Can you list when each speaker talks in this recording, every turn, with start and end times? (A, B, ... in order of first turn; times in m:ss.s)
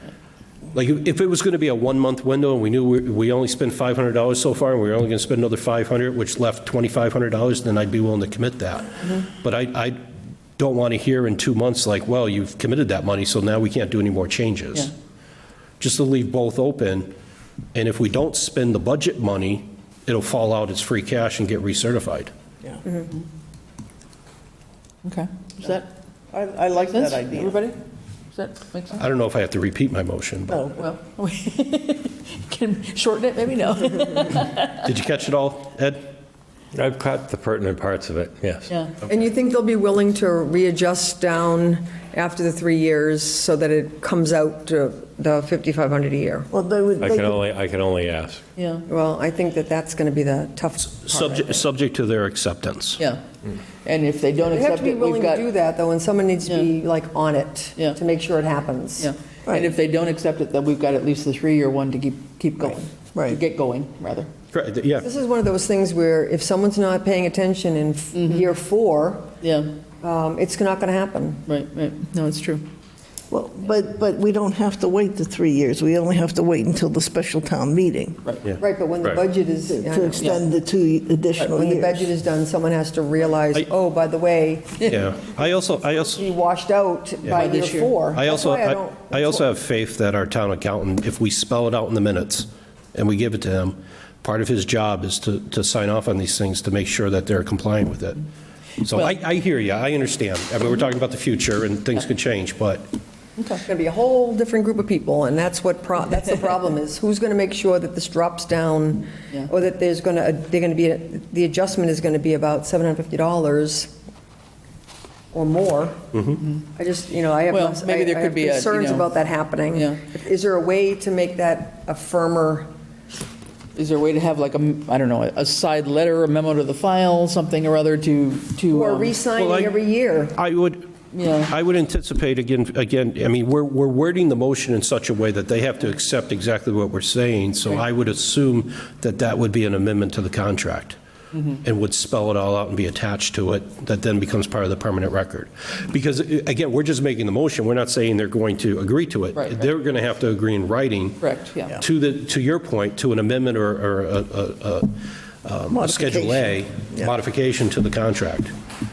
0:00.7-0:10.0 A
0:10.6-0:14.9 A
0:15.8-0:17.1 A
0:17.7-0:22.3 A
0:25.0-0:25.9 B
0:26.3-0:27.6 C
0:26.9-0:27.8 B
0:28.3-0:29.0 B
0:29.0-0:30.7 A
0:30.5-0:30.8 C
0:30.8-0:34.9 B
0:34.7-0:36.0 A
0:36.7-0:38.7 D
0:39.1-0:46.5 E
0:46.5-0:47.4 C
0:47.0-0:48.4 D
0:48.6-0:48.9 B
0:48.9-0:51.6 E
0:50.8-0:53.0 A
0:53.8-0:55.4 B
0:54.4-0:59.1 E
0:59.0-1:04.3 B
1:04.5-1:05.1 A
1:05.0-1:09.3 E
1:08.1-1:08.5 B
1:09.4-1:09.7 B
1:10.0-1:11.4 E
1:11.5-1:12.7 B
1:13.3-1:18.2 C
1:18.6-1:20.4 E
1:19.7-1:22.1 C
1:21.4-1:29.4 E
1:24.9-1:26.2 A
1:27.3-1:28.0 B
1:28.2-1:38.2 A
1:38.8-1:42.9 A
1:43.4-1:43.6 B
1:43.7-1:53.9 E
1:55.3-2:02.7 E
1:57.5-1:59.1 B
1:59.7-2:00.0 B
2:03.8-2:09.1 B
2:08.7-2:10.4 E
2:09.4-2:09.8 A
2:10.3-2:10.9 A
2:11.1-2:11.5 B
2:11.5-2:21.0 A
2:21.6-2:38.5 A
2:31.2-2:31.8 B
2:35.7-2:37.1 C